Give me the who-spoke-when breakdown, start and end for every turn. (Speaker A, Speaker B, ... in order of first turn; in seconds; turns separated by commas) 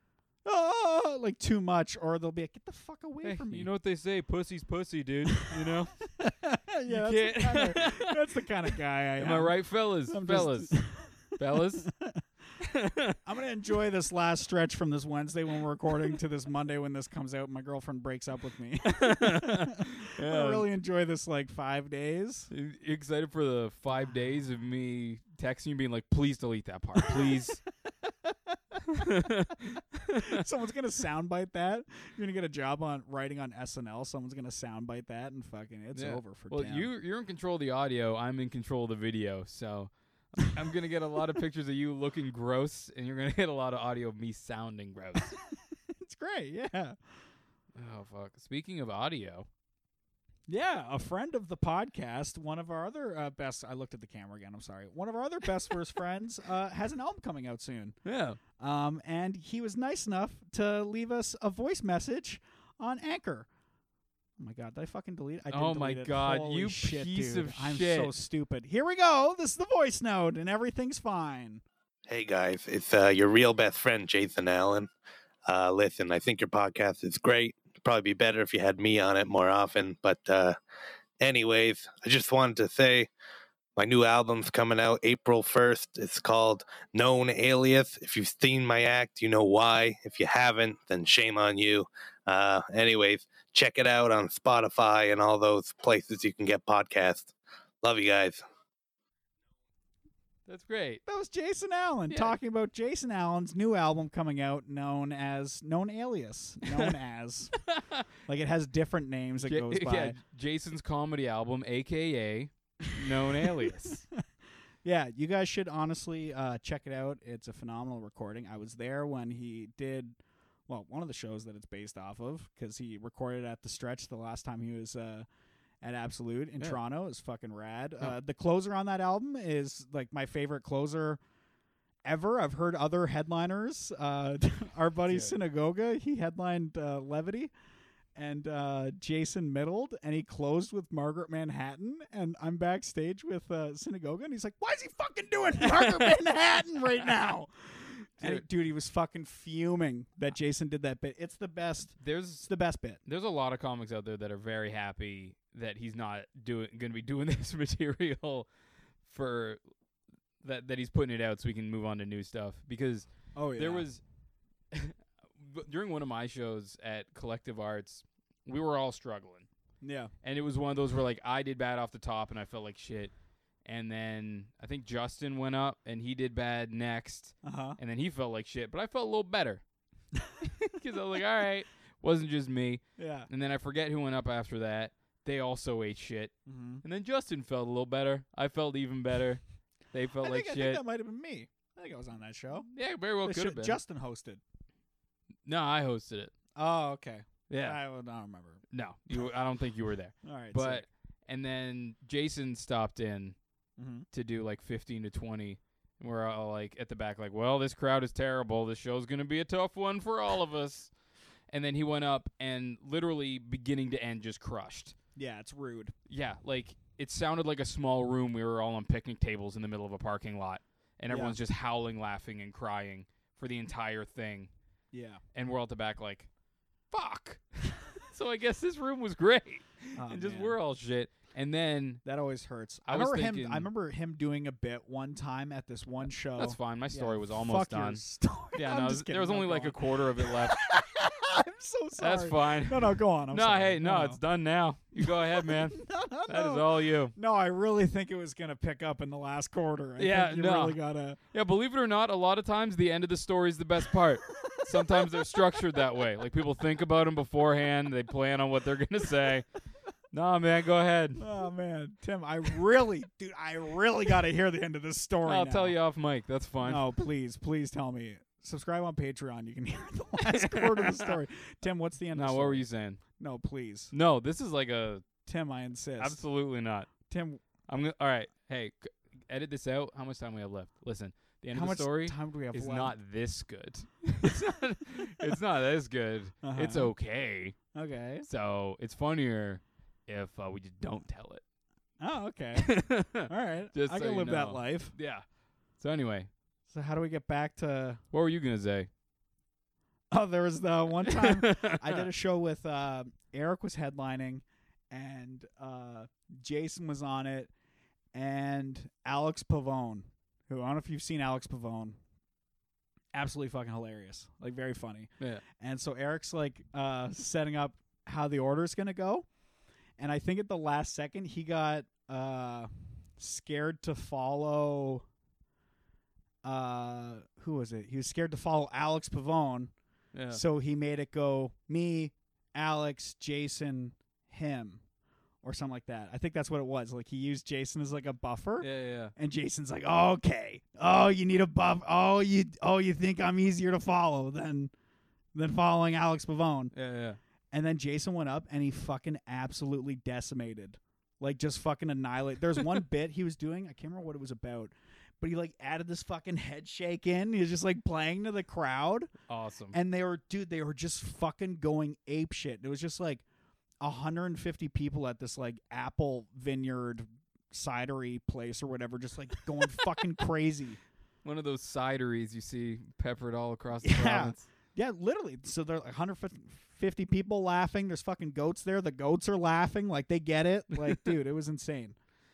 Speaker A: 0.4-3.7, Speaker B: 3.2-6.0, Speaker A: 6.2-12.2, Speaker B: 6.8-8.2, Speaker B: 9.2-11.9, Speaker B: 12.6-13.2, Speaker A: 13.2-22.5, Speaker B: 18.9-20.7, Speaker B: 22.5-27.6, Speaker A: 28.0-28.8, Speaker B: 28.9-30.4, Speaker A: 30.1-36.9, Speaker B: 35.9-45.4, Speaker A: 46.0-47.0, Speaker B: 47.7-49.5, Speaker A: 50.5-58.0, Speaker B: 58.0-58.4, Speaker A: 58.6-63.5, Speaker A: 64.4-71.6, Speaker B: 65.5-68.1, Speaker C: 72.1-74.9, Speaker C: 75.5-80.5, Speaker C: 81.2-83.1, Speaker C: 83.8-98.4, Speaker B: 100.5-101.0, Speaker A: 101.0-107.5, Speaker B: 106.7-106.9, Speaker B: 107.6-108.1, Speaker A: 108.2-110.2, Speaker B: 109.4-114.0, Speaker A: 114.8-120.2, Speaker A: 120.7-125.2, Speaker A: 125.8-131.2, Speaker A: 132.0-137.5, Speaker B: 135.1-135.3, Speaker A: 138.1-153.0, Speaker B: 145.6-146.2, Speaker B: 148.2-148.4, Speaker B: 152.0-152.5, Speaker B: 153.1-158.5, Speaker B: 159.0-159.6, Speaker B: 160.4-164.0, Speaker A: 163.3-163.9, Speaker B: 164.7-169.5, Speaker A: 169.8-170.1, Speaker B: 170.2-173.1, Speaker B: 173.6-179.6, Speaker A: 177.4-177.8, Speaker B: 180.4-189.4, Speaker A: 183.0-183.3, Speaker A: 186.4-186.8, Speaker B: 189.9-190.8, Speaker A: 190.2-192.7, Speaker B: 192.7-193.8, Speaker A: 193.2-194.4, Speaker B: 195.4-196.3, Speaker A: 196.5-198.6, Speaker B: 197.5-197.8, Speaker B: 198.7-203.3, Speaker A: 200.2-200.8, Speaker A: 203.8-204.1, Speaker B: 204.1-210.9, Speaker B: 211.5-214.9, Speaker A: 215.2-215.9, Speaker B: 216.1-224.5, Speaker A: 221.1-221.4, Speaker A: 224.9-225.2, Speaker B: 225.3-226.3, Speaker B: 226.9-232.0, Speaker A: 229.9-230.6, Speaker A: 232.0-244.2, Speaker B: 232.8-233.7, Speaker B: 236.0-238.0, Speaker B: 238.5-240.6, Speaker B: 242.0-247.1, Speaker A: 245.0-251.2, Speaker B: 250.0-250.8, Speaker B: 251.3-259.4, Speaker A: 254.6-255.2, Speaker B: 260.1-261.2, Speaker A: 261.2-265.8, Speaker B: 265.2-266.8, Speaker A: 266.6-272.6, Speaker B: 270.2-271.1, Speaker B: 272.1-273.0, Speaker A: 273.2-273.9, Speaker B: 273.9-275.1, Speaker A: 275.2-276.2, Speaker B: 276.0-276.9, Speaker A: 277.1-277.4, Speaker B: 277.7-287.6, Speaker A: 281.5-282.9, Speaker A: 286.4-286.9, Speaker A: 287.7-288.3, Speaker B: 288.2-291.4, Speaker A: 292.0-294.9, Speaker B: 292.6-295.2, Speaker B: 295.8-296.3, Speaker A: 296.7-298.0, Speaker B: 298.1-298.9, Speaker A: 300.1-307.5, Speaker B: 301.0-302.1, Speaker A: 308.1-312.0, Speaker A: 313.1-319.3, Speaker A: 320.0-325.1, Speaker A: 326.4-329.7, Speaker B: 330.1-330.4, Speaker A: 330.3-334.8, Speaker A: 335.4-344.7, Speaker B: 338.6-339.1, Speaker A: 345.3-346.7, Speaker B: 346.7-347.2, Speaker A: 347.5-359.1, Speaker B: 359.3-359.8, Speaker A: 359.7-363.2, Speaker A: 363.8-370.8, Speaker B: 371.2-374.4, Speaker A: 373.8-382.0